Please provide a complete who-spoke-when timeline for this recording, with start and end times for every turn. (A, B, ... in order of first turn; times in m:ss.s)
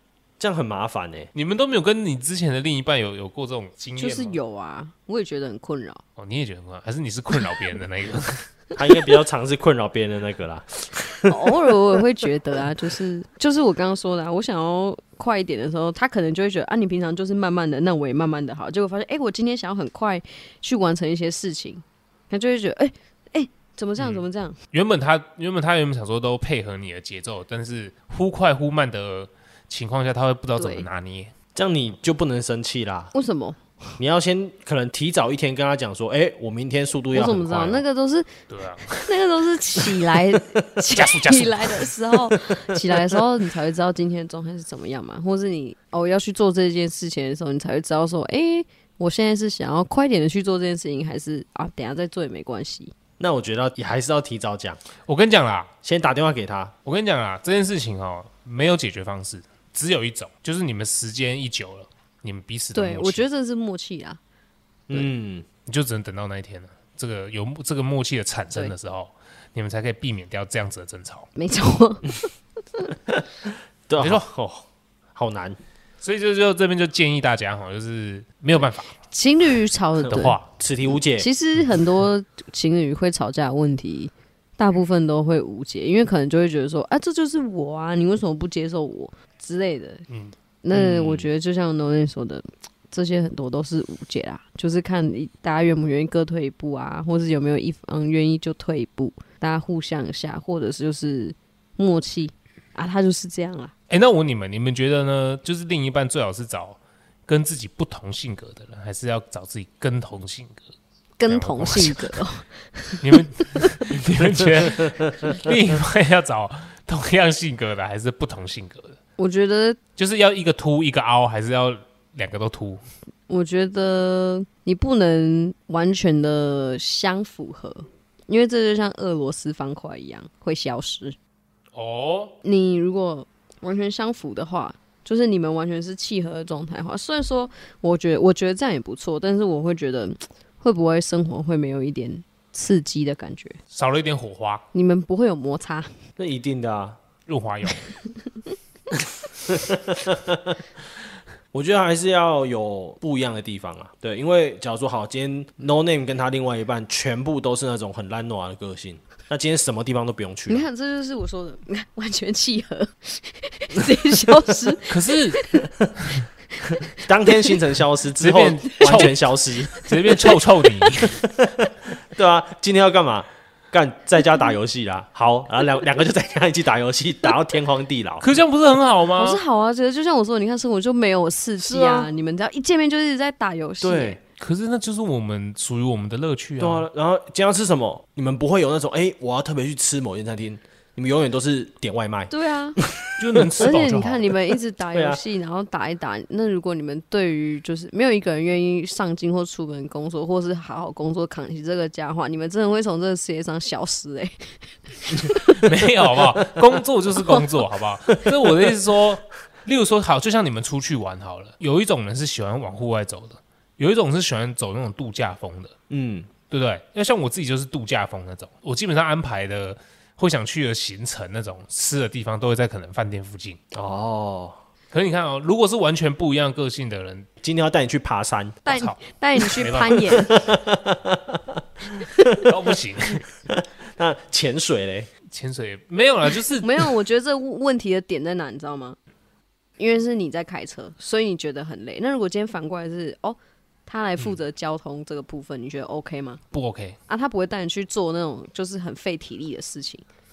0:00.4-0:01.3 A
0:01.3-0:04.4 B
0:04.0-0:06.0 C
0:06.2-0:08.5 B
0:08.7-0:11.8 A
0:11.3-0:24.6 C
0:24.0-0:31.3 B
0:30.6-0:30.9 C
0:31.5-0:33.1 A
0:33.1-0:34.0 C
0:34.0-0:37.8 A
0:37.1-0:38.3 C
0:38.5-0:39.2 B
0:38.9-0:52.9 C
0:40.9-0:41.9 B
0:42.8-0:43.2 A
0:53.2-0:54.8 A
0:55.0-0:55.7 B
0:55.8-0:56.7 A
0:56.8-1:03.2 B
1:02.7-1:04.2 C
1:04.9-1:05.4 A
1:05.6-1:11.3 B
1:11.4-1:12.9 C
1:13.1-1:15.6 A
1:14.0-1:14.2 B
1:16.0-1:18.9 B
1:19.1-1:30.1 C
1:20.0-1:21.3 A
1:20.1-1:20.5 B
1:30.6-1:43.7 C
1:30.7-1:31.3 A
1:43.9-1:50.6 B
1:51.2-1:53.9 C
1:51.3-1:52.2 B
1:53.0-1:59.0 B
1:54.2-1:55.3 A
1:59.2-1:59.8 C
2:00.0-2:02.8 B
2:03.3-2:11.2 C
2:11.7-2:12.4 B
2:12.4-2:23.6 C
2:23.7-2:24.6 B
2:24.7-2:25.9 C
2:26.2-2:27.0 A
2:27.3-2:27.8 B
2:29.5-2:30.6 A
2:31.5-2:40.6 A
2:40.5-2:45.7 C
2:44.9-2:45.4 B
2:46.6-2:47.6 C
2:46.7-2:50.2 A
2:48.2-2:51.3 B
2:50.1-2:50.4 C
2:51.0-2:58.2 A
2:58.2-2:59.4 B
2:59.2-3:04.2 C
3:01.6-3:02.1 A
3:03.8-3:04.2 A
3:04.4-3:06.9 B
3:06.6-3:14.3 A
3:12.3-3:12.8 C
3:13.2-3:14.3 B
3:13.6-3:25.7 C
3:14.9-3:15.2 A
3:25.5-3:35.8 B
3:27.2-3:27.4 C
3:28.3-3:28.5 A
3:35.9-3:36.3 A
3:36.5-3:43.6 B
3:43.7-3:44.6 A
3:44.9-3:47.3 B
3:47.4-3:48.6 A
3:48.6-3:50.3 C
3:48.7-3:49.0 B
3:49.5-3:50.2 B
3:50.1-3:51.6 A
3:52.0-3:53.2 B
3:53.4-3:55.1 A
3:55.3-3:56.7 B
3:56.6-3:59.0 C
3:59.8-4:06.4 C
4:06.5-4:07.0 B
4:07.1-4:10.0 C